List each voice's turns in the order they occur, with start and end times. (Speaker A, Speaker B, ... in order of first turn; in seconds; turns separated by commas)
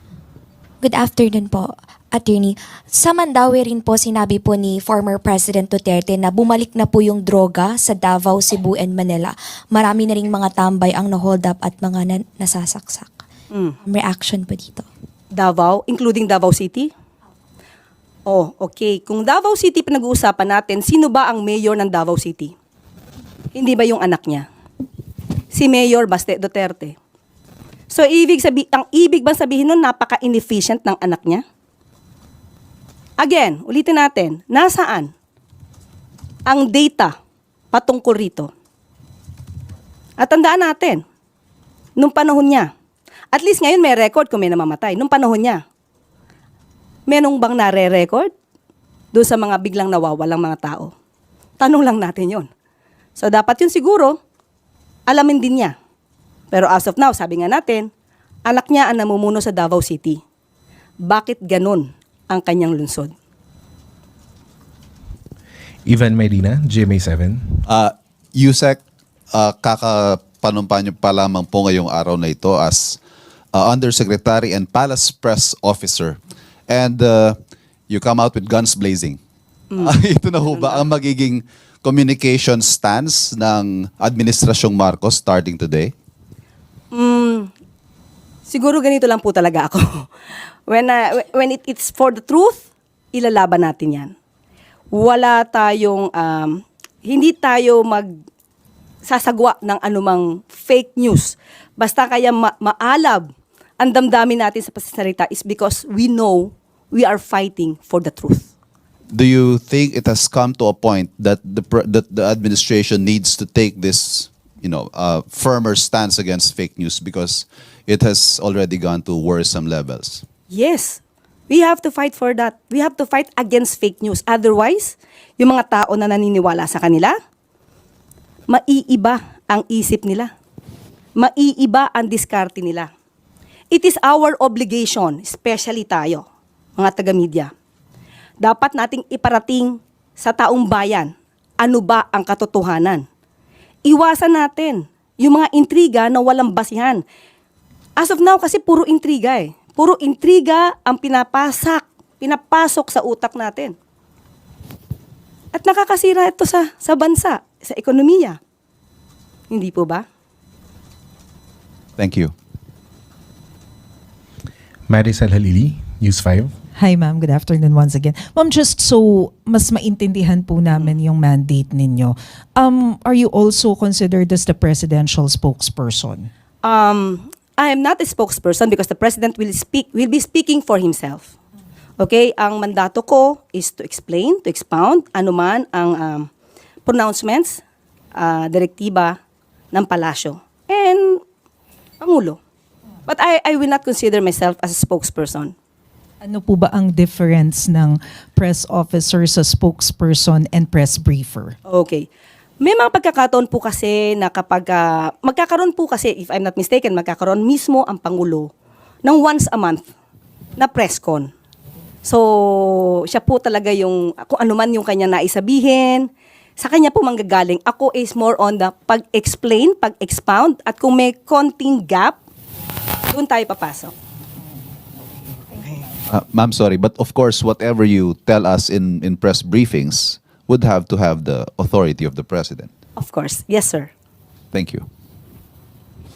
Speaker A: 0.8-13.2, Speaker B: 13.5-13.8, Speaker A: 13.8-14.8, Speaker B: 15.3-16.9, Speaker B: 18.2-22.5, Speaker B: 23.5-24.5, Speaker B: 25.5-26.9, Speaker B: 27.9-31.4, Speaker B: 33.2-35.1, Speaker B: 36.5-37.1, Speaker B: 37.7-38.5, Speaker B: 40.2-41.0, Speaker B: 42.0-42.7, Speaker B: 43.3-45.6, Speaker B: 47.1-48.3, Speaker B: 49.1-50.9, Speaker B: 51.6-52.5, Speaker B: 53.2-54.2, Speaker B: 55.1-55.7, Speaker B: 56.5-57.9, Speaker B: 58.4-60.2, Speaker B: 61.0-63.1, Speaker C: 65.8-67.6, Speaker D: 67.7-68.8, Speaker D: 69.3-73.0, Speaker D: 73.5-76.2, Speaker D: 76.7-77.4, Speaker D: 77.9-79.2, Speaker D: 79.7-85.9, Speaker B: 80.5-80.8, Speaker B: 86.9-87.5, Speaker B: 88.5-90.1, Speaker B: 90.7-94.1, Speaker B: 94.9-98.1, Speaker B: 99.0-108.5, Speaker D: 109.1-120.2, Speaker B: 120.5-127.1, Speaker B: 128.5-130.3, Speaker B: 131.2-132.9, Speaker B: 133.7-136.2, Speaker B: 136.8-137.5, Speaker B: 138.4-143.0, Speaker B: 143.8-147.0, Speaker B: 148.0-153.7, Speaker B: 155.5-158.4, Speaker B: 159.5-160.0, Speaker D: 162.0-162.3, Speaker C: 164.9-166.5, Speaker E: 166.8-176.3, Speaker B: 176.6-181.3, Speaker B: 182.0-186.3, Speaker B: 186.8-187.6, Speaker B: 188.2-189.2, Speaker B: 189.7-191.2, Speaker B: 192.0-192.4, Speaker B: 193.1-195.5, Speaker E: 196.2-201.5, Speaker B: 201.7-202.1, Speaker B: 202.6-208.5, Speaker B: 209.0-209.8, Speaker B: 210.6-211.3, Speaker B: 212.0-222.2, Speaker B: 223.1-223.9, Speaker D: 226.1-232.7, Speaker B: 233.0-233.9, Speaker D: 234.5-234.8